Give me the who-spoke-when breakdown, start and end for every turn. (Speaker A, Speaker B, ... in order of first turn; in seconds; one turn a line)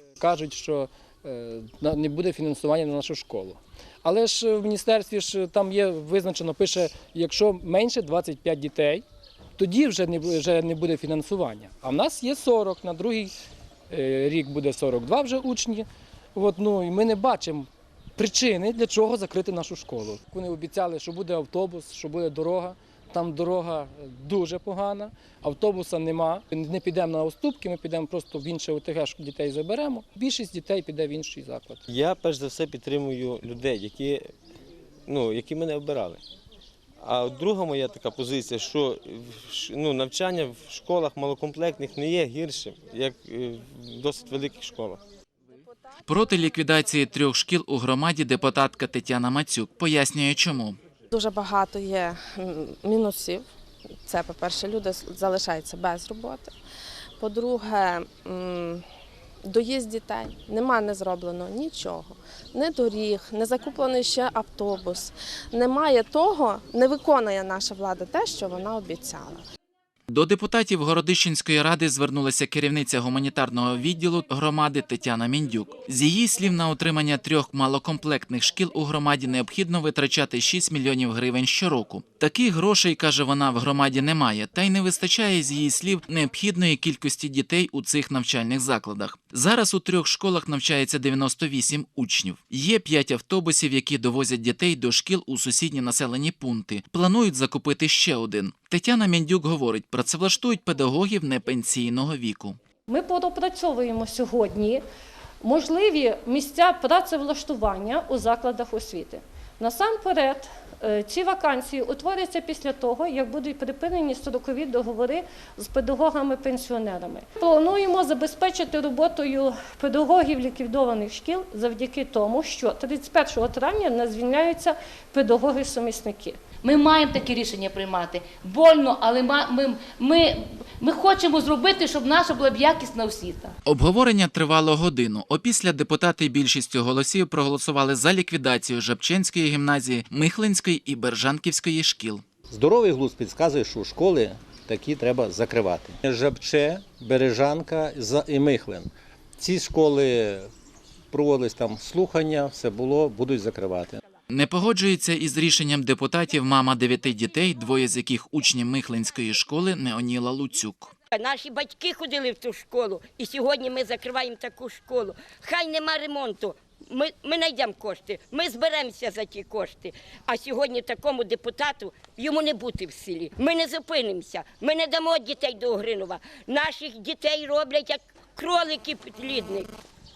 Speaker A: 0.2-9.0
Speaker A: 9.6-13.3
Speaker A: 13.9-31.8
Speaker B: 31.9-34.3
Speaker B: 35.1-36.2
Speaker B: 37.0-45.0
Speaker C: 46.0-50.8
Speaker D: 51.1-53.4
Speaker D: 54.0-56.5
Speaker D: 57.2-58.8
Speaker D: 59.4-69.4
Speaker C: 70.1-102.6
Speaker E: 102.9-104.8
Speaker E: 105.4-126.4
Speaker F: 126.6-133.6
Speaker C: 133.7-142.2
Speaker G: 142.5-150.5
Speaker G: 151.1-154.0
Speaker C: 154.3-160.9
Speaker H: 161.1-179.7